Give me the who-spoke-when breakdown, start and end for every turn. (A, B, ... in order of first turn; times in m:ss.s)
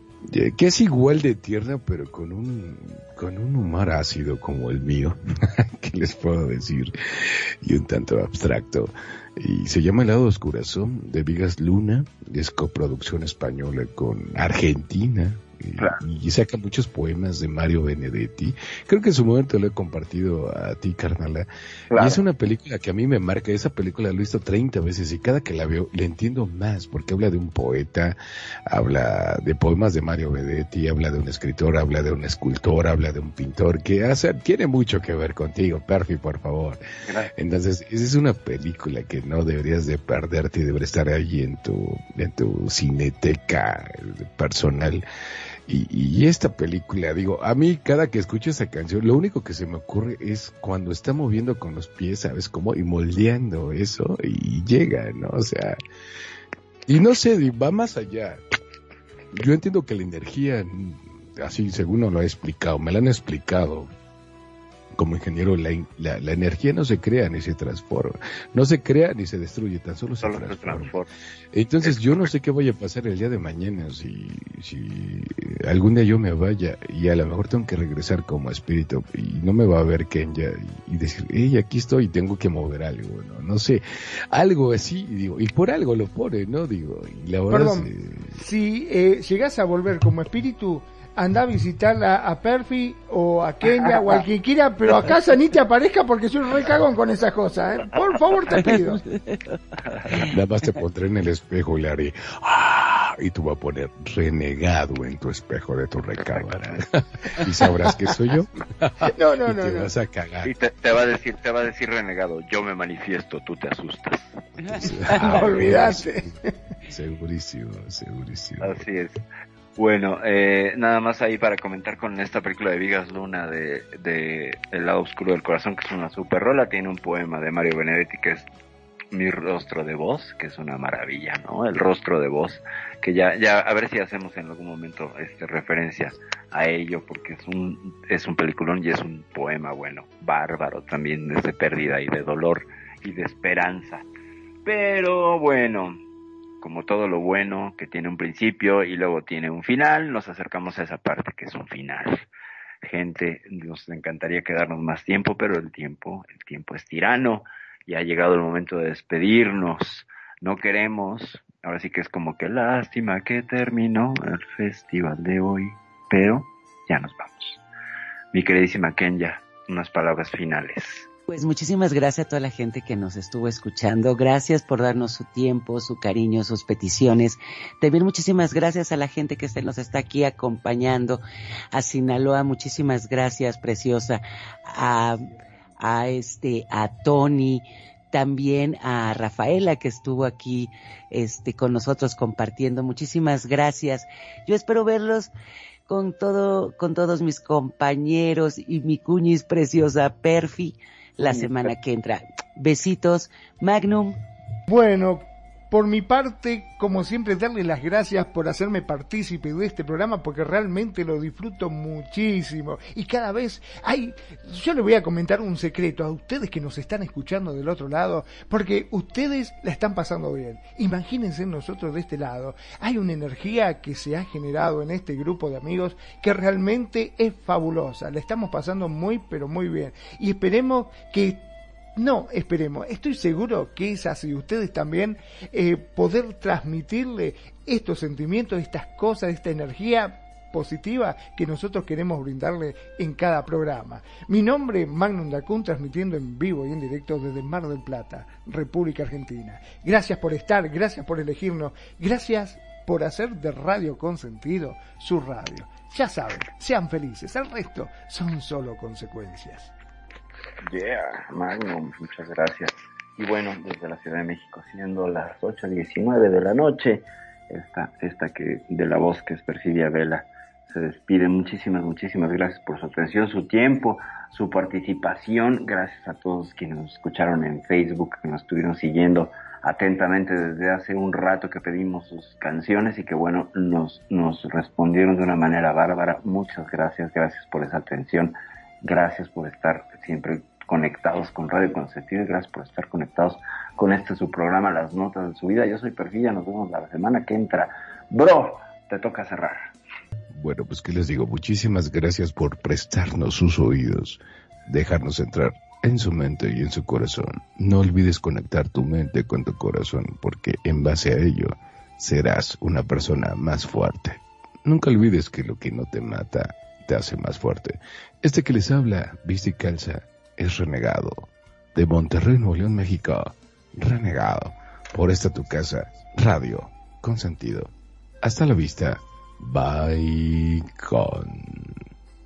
0:00.2-0:36.8 A
0:21.9-0:22.2 B
0:37.0-0:37.3 B
0:37.3-0:45.0 A
0:45.7-0:55.8 A
0:56.9-0:58.4 A
0:59.3-1:03.9 A
1:04.9-1:11.0 A
1:10.2-1:11.1 B
1:11.5-1:28.3 A
1:27.5-1:39.0 C
1:40.1-1:50.5 A
1:46.3-1:46.9 B
1:47.6-1:47.9 C
1:49.0-1:49.9 C
1:50.4-1:54.9 B
1:54.6-1:55.5 D
1:54.8-1:56.1 A
1:55.2-1:56.5 C
1:56.9-1:58.8 A
1:58.6-1:59.2 B
1:59.8-2:08.5 B
2:09.1-2:24.0 B
2:24.6-2:26.0 B
2:26.6-2:32.2 B
2:32.8-2:47.6 B
2:48.3-2:51.1 B
2:51.3-3:01.2 D
3:01.7-3:05.3 D
3:05.8-3:15.3 D
3:15.9-3:24.2 D
3:21.2-3:21.7 B
3:24.7-4:19.7 C
4:20.6-4:59.7 B
5:00.3-5:27.7 A
5:28.2-5:31.8 A